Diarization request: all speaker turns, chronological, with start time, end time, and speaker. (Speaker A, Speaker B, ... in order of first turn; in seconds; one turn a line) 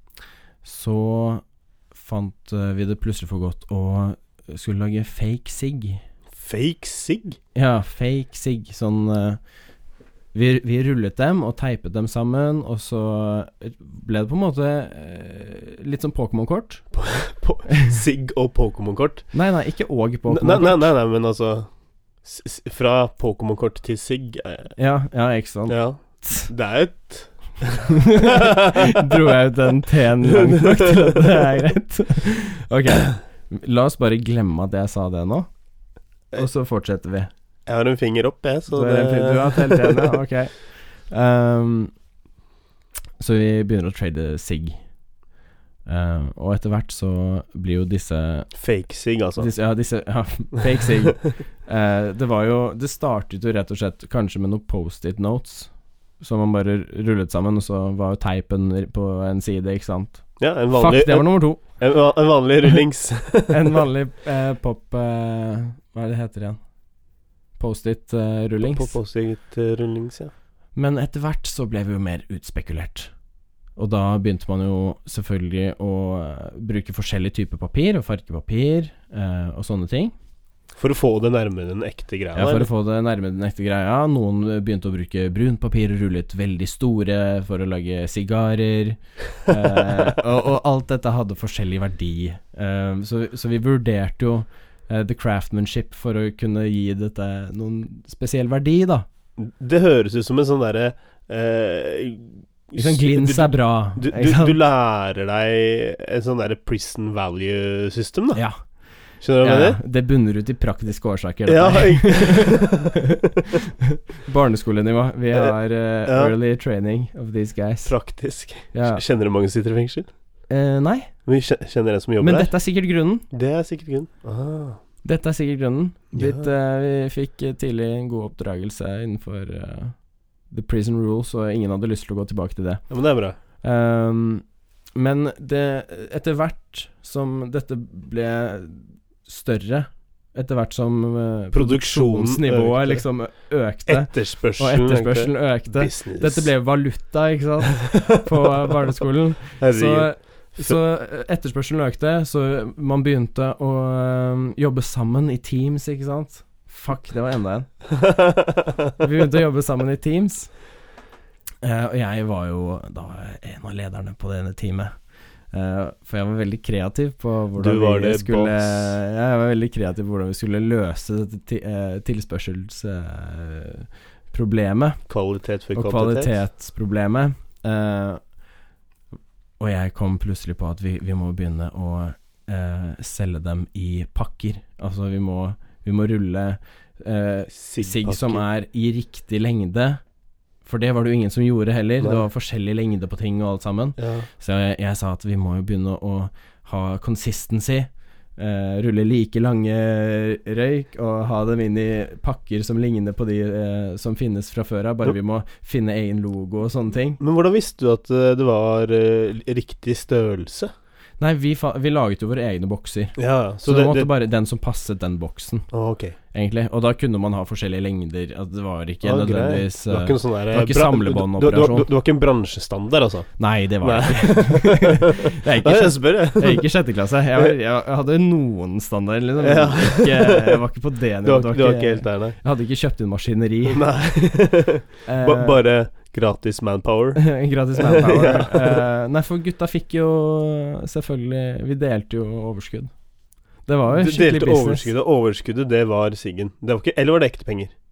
Speaker A: 0.6-6.0
Speaker B: 6.3-7.4
Speaker A: 7.5-9.4
Speaker A: 10.3-16.9
Speaker B: 16.9-19.3
Speaker A: 17.7-17.9
Speaker A: 19.3-20.9
Speaker B: 20.3-21.7
Speaker B: 22.2-24.7
Speaker A: 24.8-26.5
Speaker B: 25.7-29.3
Speaker A: 27.9-35.5
Speaker B: 30.2-31.6
Speaker A: 36.3-37.3
Speaker B: 37.6-40.2
Speaker A: 38.7-41.9
Speaker A: 43.2-44.8
Speaker A: 45.9-48.5
Speaker B: 48.5-49.5
Speaker A: 49.4-61.6
Speaker B: 60.4-63.8
Speaker A: 63.5-66.6
Speaker A: 67.6-68.9
Speaker B: 68.6-70.3
Speaker A: 70.8-73.1
Speaker A: 73.8-80.1
Speaker B: 80.8-82.7
Speaker A: 82.3-99.1
Speaker B: 99.4-108.4
Speaker A: 102.8-104.6
Speaker A: 108.3-108.6
Speaker B: 109.2-109.8
Speaker A: 109.4-117.9
Speaker B: 111.5-113.2
Speaker B: 115.3-116.3
Speaker B: 117.8-120.1
Speaker A: 118.7-119.0
Speaker A: 120.5-121.1
Speaker B: 121.2-122.5
Speaker A: 122.2-123.2
Speaker B: 123.3-124.8
Speaker A: 125.0-130.0
Speaker B: 126.1-126.5
Speaker A: 130.5-132.8
Speaker B: 132.9-133.4
Speaker A: 133.6-157.7
Speaker B: 141.5-143.1
Speaker B: 143.9-146.5
Speaker B: 147.8-148.3
Speaker B: 149.6-150.7
Speaker B: 157.9-158.9
Speaker A: 159.0-160.5
Speaker A: 161.6-164.9
Speaker A: 165.5-175.0
Speaker B: 167.6-169.0
Speaker B: 175.1-176.4
Speaker A: 175.7-178.2
Speaker A: 179.6-190.0
Speaker B: 187.5-188.4
Speaker A: 190.6-207.2
Speaker B: 194.0-194.3
Speaker B: 207.2-210.7
Speaker A: 211.2-215.7
Speaker B: 213.2-214.1
Speaker B: 215.7-216.2
Speaker A: 216.3-221.9
Speaker B: 219.0-226.7
Speaker A: 223.4-233.8
Speaker B: 229.4-230.6
Speaker B: 231.2-232.4
Speaker B: 233.7-238.8
Speaker A: 235.1-235.6
Speaker A: 237.2-242.9
Speaker A: 243.7-244.9
Speaker B: 243.9-247.7